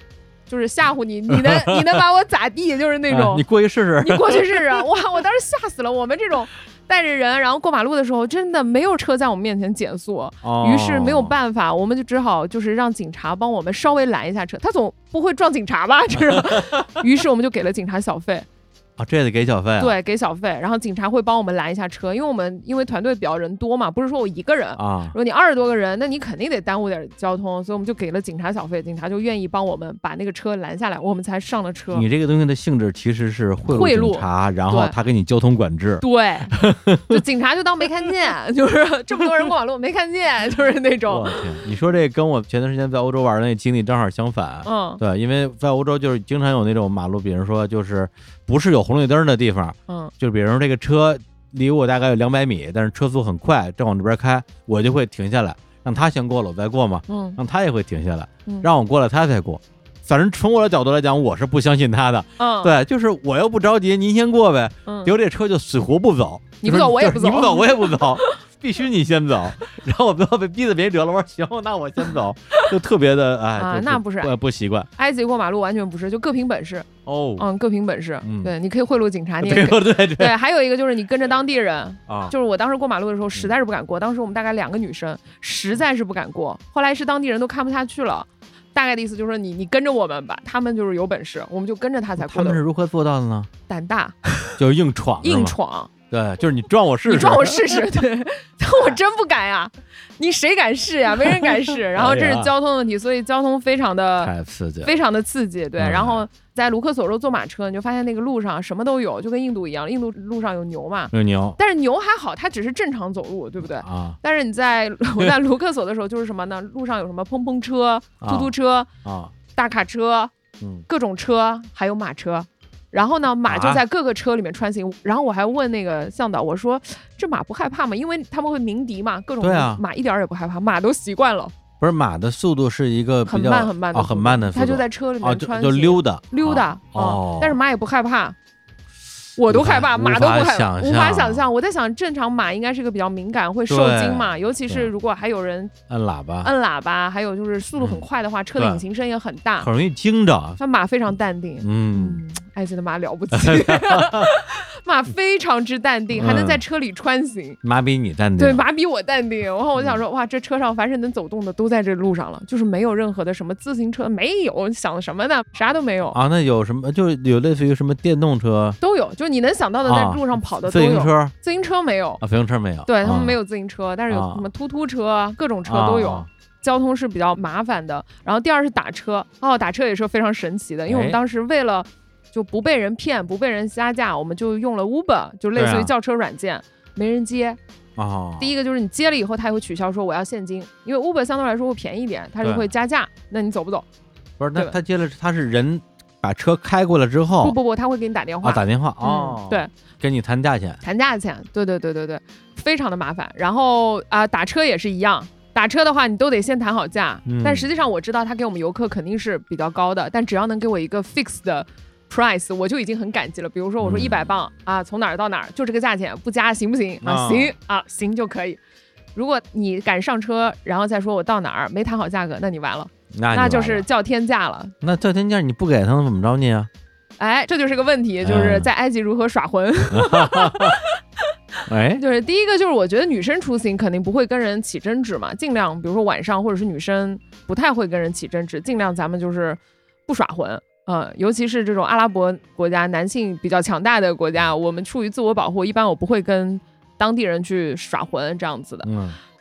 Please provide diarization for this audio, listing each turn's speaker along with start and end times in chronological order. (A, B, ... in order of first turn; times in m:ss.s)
0:00.5-0:03.4 A
0:01.3-0:01.9 B
0:03.1-0:04.8 B
0:04.0-0:18.4 A
0:10.4-0:11.3 B
0:16.4-0:16.8 B
0:19.0-0:19.9 B
0:19.8-0:32.0 A
0:24.8-0:25.2 B
0:31.9-0:37.2 B
0:33.7-0:34.9 A
0:36.0-0:36.6 A
0:37.1-0:41.4 A
0:41.1-1:14.9 B
0:44.6-0:45.0 A
0:57.1-0:57.4 A
1:02.4-1:02.7 A
1:04.8-1:05.1 A
1:06.6-1:08.4 A
1:13.6-1:14.3 A
1:15.0-1:32.6 A
1:17.0-1:17.4 B
1:18.2-1:18.5 B
1:19.4-1:20.3 B
1:22.1-1:22.3 B
1:32.2-1:33.5 B
1:33.7-1:34.6 A
1:34.6-1:35.5 B
1:35.2-1:35.9 A
1:36.1-1:37.7 B
1:37.1-1:44.3 A
1:42.0-1:42.5 B
1:44.2-1:44.9 B
1:44.8-1:58.9 A
1:45.8-1:46.2 B
1:51.1-1:51.6 B
1:53.8-1:54.2 B
1:58.2-1:58.5 B
1:59.0-1:59.3 B
1:59.5-2:00.3 A
2:00.9-2:11.5 A
2:03.4-2:03.8 B
2:09.4-2:09.8 B
2:11.8-2:17.6 B
2:13.2-2:18.4 A
2:19.4-2:25.7 A
2:19.5-2:21.4 B
2:23.7-2:24.9 B
2:25.9-2:26.5 B
2:26.4-2:29.7 A
2:28.6-2:28.8 B
2:29.6-2:30.6 B
2:30.6-2:37.6 A
2:31.6-2:32.2 B
2:33.3-2:34.3 B
2:36.1-2:36.6 B
2:37.6-2:38.6 B
2:38.4-2:46.2 A
2:46.1-2:48.8 B
2:48.8-2:52.2 A
2:49.8-2:51.3 B
2:52.2-2:53.4 B
2:52.8-3:07.6 A
2:54.1-2:54.4 B
2:55.7-2:56.3 B
3:00.9-3:01.2 B
3:05.5-3:05.9 B
3:08.0-3:08.5 B
3:08.4-3:13.8 A
3:12.4-3:12.7 B
3:14.4-3:17.6 B
3:17.4-3:19.7 A
3:18.4-3:20.8 B
3:20.8-3:38.6 A
3:27.2-3:27.7 B
3:33.8-3:34.1 B
3:37.0-3:37.5 B
3:39.1-3:44.7 A
3:43.1-3:43.8 B
3:44.8-3:46.7 B
3:47.2-3:50.8 A
3:48.2-3:48.7 B
3:49.9-3:50.7 B
3:51.7-3:52.0 B
3:52.0-4:08.9 A
4:08.8-4:09.2 B